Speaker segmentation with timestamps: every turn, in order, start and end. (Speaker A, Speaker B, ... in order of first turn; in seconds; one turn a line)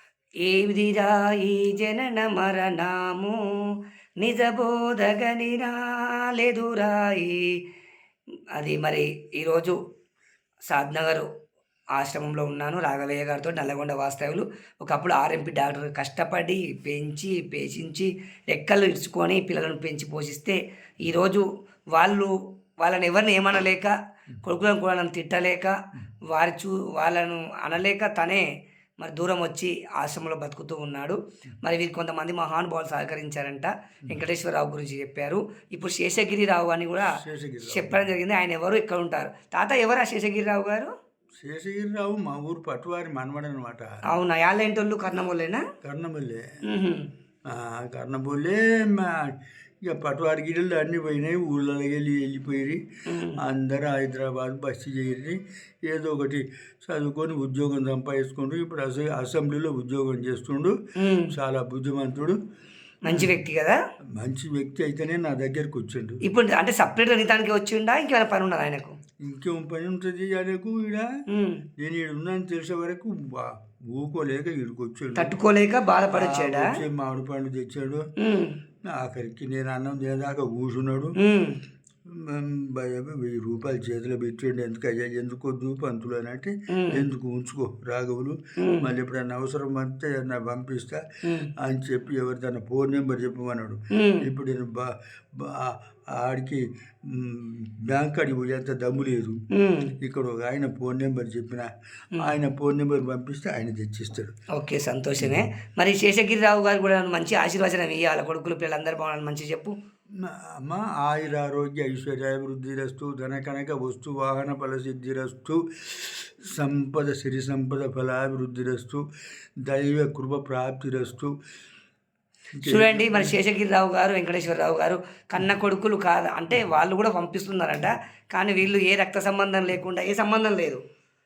Speaker A: 0.4-3.4
Speaker A: 4.2-7.6
Speaker A: 8.5-9.8
Speaker A: 10.7-11.3
Speaker A: 11.9-25.8
Speaker A: 26.3-28.4
Speaker A: 29.0-40.9
Speaker B: 37.1-38.0
Speaker B: 41.4-44.0
Speaker A: 44.1-45.6
Speaker B: 45.8-46.4
Speaker A: 46.7-47.1
Speaker B: 47.5-52.8
Speaker A: 53.1-53.4
Speaker B: 53.4-60.8
Speaker A: 61.0-61.3
Speaker B: 61.3-62.4
Speaker A: 63.0-63.8
Speaker B: 63.1-63.3
Speaker B: 64.2-66.2
Speaker A: 66.2-69.0
Speaker B: 69.2-71.1
Speaker A: 71.3-71.6
Speaker B: 71.8-75.3
Speaker A: 75.2-76.8
Speaker B: 76.1-78.1
Speaker A: 78.2-78.6
Speaker B: 78.9-81.2
Speaker A: 81.2-81.6
Speaker B: 82.0-99.4
Speaker A: 86.7-87.0
Speaker A: 88.6-88.9
Speaker A: 93.9-94.2
Speaker A: 99.5-99.9
Speaker B: 100.0-104.3
Speaker A: 104.5-109.7
Speaker B: 110.2-119.0
Speaker B: 119.6-121.3
Speaker B: 122.6-123.3
Speaker A: 122.7-130.8